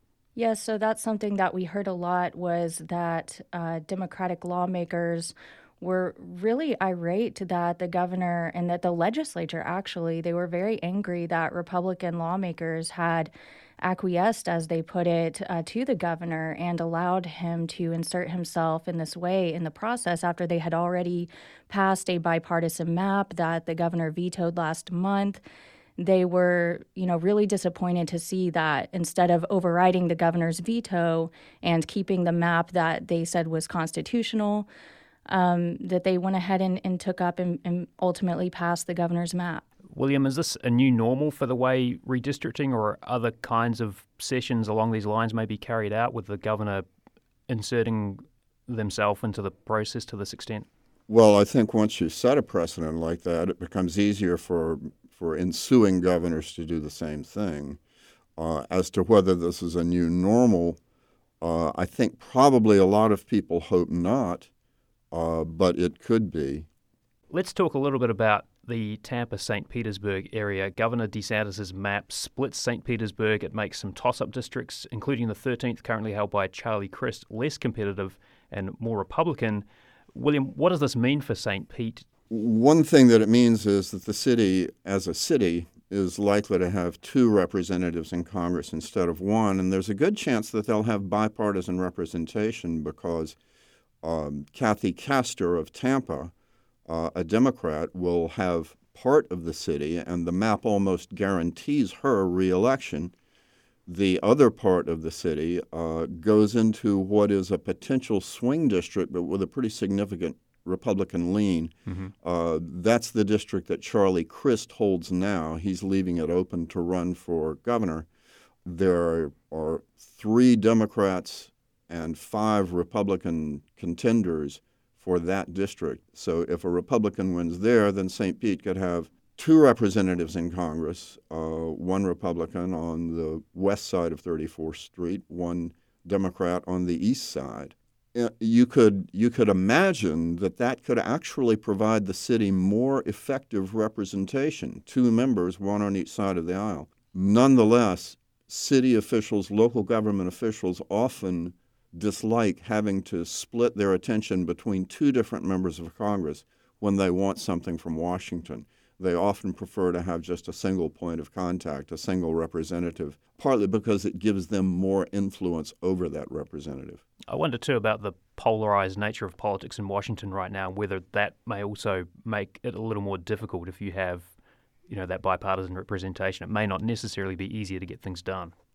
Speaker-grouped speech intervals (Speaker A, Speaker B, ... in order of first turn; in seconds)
Speaker A: 0.4-25.4, 26.0-34.7, 35.3-39.6
Speaker B: 39.9-46.9, 47.5-50.7, 67.3-82.1, 111.9-112.1, 167.3-174.3, 174.9-178.5
Speaker C: 51.1-57.8, 58.4-60.8, 61.4-64.5, 65.1-66.7, 82.3-93.4, 94.0-96.3, 96.9-103.1, 103.9-118.1, 118.7-167.0